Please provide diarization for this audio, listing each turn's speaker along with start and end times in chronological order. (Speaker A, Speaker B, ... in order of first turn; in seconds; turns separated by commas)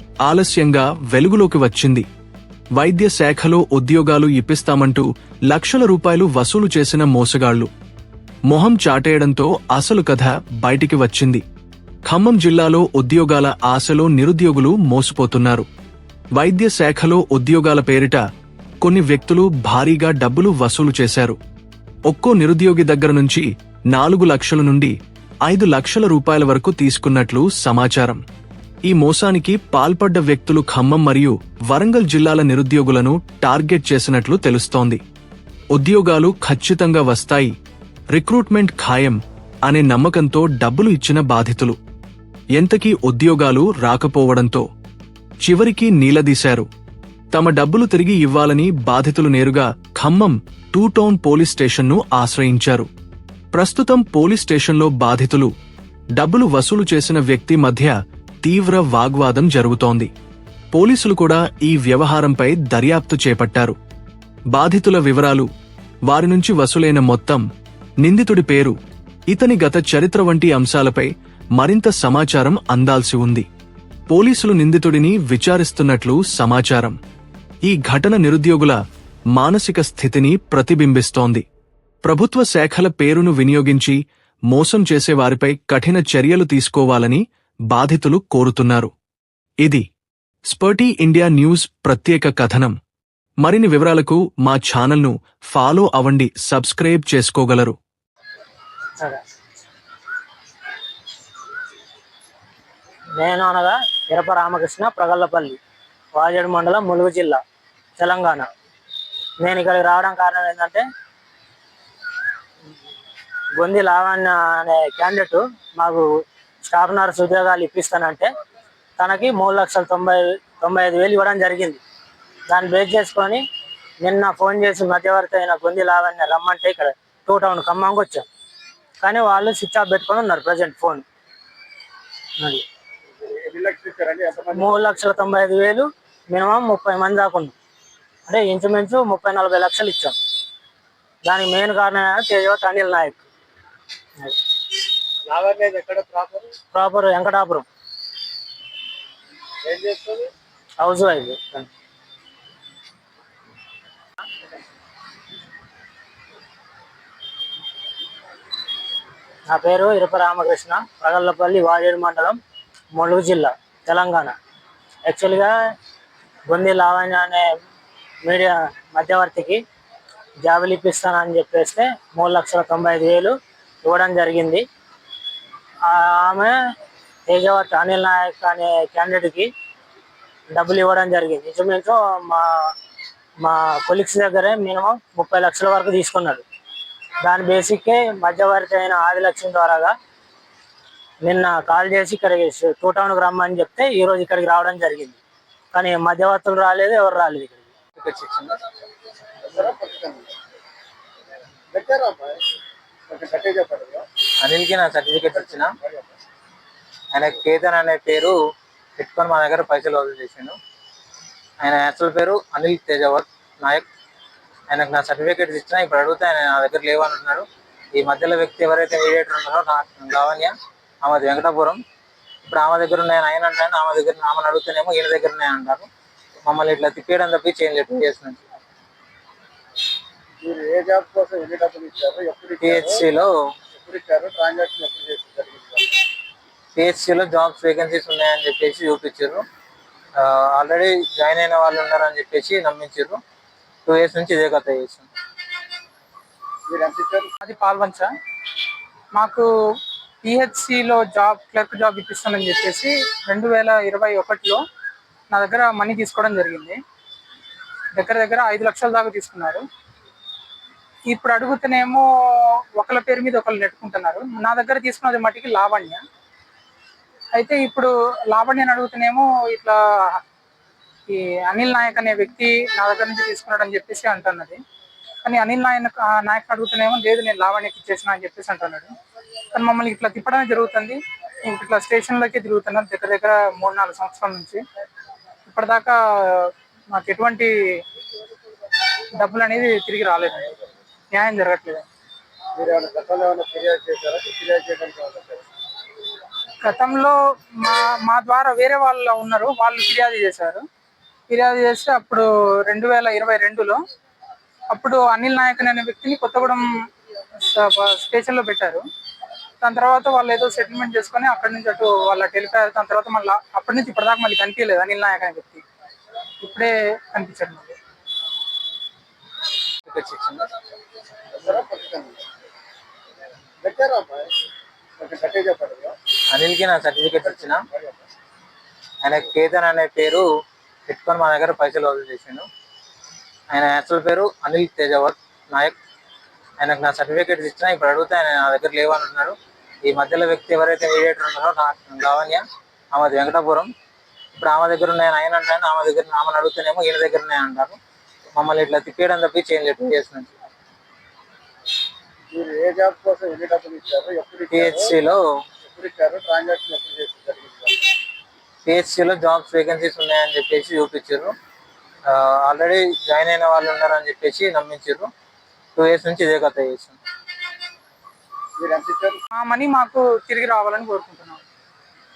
Speaker A: 0.2-2.0, Speaker A: 2.8-7.7, Speaker A: 8.5-11.4, Speaker A: 12.1-15.7, Speaker A: 16.3-18.2, Speaker A: 18.8-21.4, Speaker A: 22.1-24.9, Speaker A: 25.4-28.2, Speaker A: 28.9-35.0, Speaker A: 35.7-37.5, Speaker A: 38.1-41.8, Speaker A: 42.5-44.6, Speaker A: 45.4-46.7, Speaker A: 47.3-52.9, Speaker A: 53.5-55.5, Speaker A: 56.2-60.1, Speaker A: 60.7-63.8, Speaker A: 64.5-65.5, Speaker A: 66.1-67.4, Speaker A: 68.0-68.7, Speaker A: 69.3-73.5, Speaker A: 74.1-77.0, Speaker A: 77.6-78.8, Speaker A: 79.3-81.4, Speaker A: 82.0-84.0, Speaker A: 84.5-88.9, Speaker A: 90.5-92.8, Speaker A: 93.4-97.8, Speaker B: 103.2-105.6, Speaker B: 106.2-107.4, Speaker B: 108.0-108.5, Speaker B: 109.4-110.8, Speaker B: 113.5-116.1, Speaker B: 116.6-118.3, Speaker B: 119.0-121.8, Speaker B: 122.5-123.4, Speaker B: 124.0-128.2, Speaker B: 129.0-131.0, Speaker C: 133.2-134.9, Speaker B: 134.5-137.5, Speaker B: 138.3-140.1, Speaker B: 141.2-143.2, Speaker C: 145.3-146.5, Speaker B: 146.7-147.7, Speaker C: 149.6-150.3, Speaker B: 150.8-151.7, Speaker B: 159.5-162.4, Speaker B: 162.9-164.3, Speaker B: 165.1-165.5, Speaker B: 166.5-167.5, Speaker B: 168.2-169.6, Speaker B: 170.4-174.6, Speaker B: 175.9-176.5, Speaker B: 177.3-179.5, Speaker B: 180.5-182.7, Speaker B: 183.4-186.4, Speaker B: 187.2-189.9, Speaker B: 191.2-195.2, Speaker B: 195.7-197.7, Speaker D: 197.9-198.6, Speaker C: 199.4-200.3, Speaker C: 201.7-202.4, Speaker C: 203.1-204.1, Speaker D: 204.4-205.7, Speaker C: 205.5-206.1, Speaker D: 207.1-208.4, Speaker D: 209.0-210.6, Speaker D: 211.6-213.8, Speaker D: 214.7-221.8, Speaker D: 222.4-225.9, Speaker D: 226.4-228.4, Speaker C: 230.4-233.1, Speaker D: 232.6-233.3, Speaker C: 233.8-236.0, Speaker D: 236.8-239.4, Speaker D: 240.2-243.2, Speaker D: 243.8-245.1, Speaker C: 246.7-247.3, Speaker E: 247.4-248.1, Speaker E: 249.1-249.4, Speaker E: 250.2-254.6, Speaker E: 255.3-256.8, Speaker E: 257.9-259.6, Speaker E: 261.1-262.0, Speaker E: 262.8-266.0, Speaker E: 267.3-270.2, Speaker E: 271.1-274.6, Speaker E: 275.2-278.9, Speaker E: 279.5-284.6, Speaker E: 285.4-287.8, Speaker E: 289.2-290.5, Speaker E: 291.1-291.8, Speaker C: 292.5-295.4, Speaker E: 296.6-300.6, Speaker E: 301.3-303.8, Speaker E: 304.7-306.7, Speaker E: 307.5-308.8, Speaker E: 309.6-315.6, Speaker E: 316.4-317.8, Speaker D: 319.9-320.5, Speaker C: 321.3-322.2, Speaker C: 323.6-324.4, Speaker C: 325.0-326.0, Speaker D: 326.3-327.6, Speaker C: 327.3-327.9, Speaker D: 329.0-330.3, Speaker D: 330.9-332.5, Speaker D: 333.5-335.8, Speaker D: 336.6-343.7, Speaker D: 344.3-347.8, Speaker D: 348.3-350.3, Speaker C: 352.3-355.0, Speaker D: 354.5-355.2, Speaker C: 355.7-357.9, Speaker D: 358.6-361.3, Speaker D: 362.1-365.1, Speaker D: 365.8-367.0, Speaker C: 368.6-369.2, Speaker E: 369.3-371.4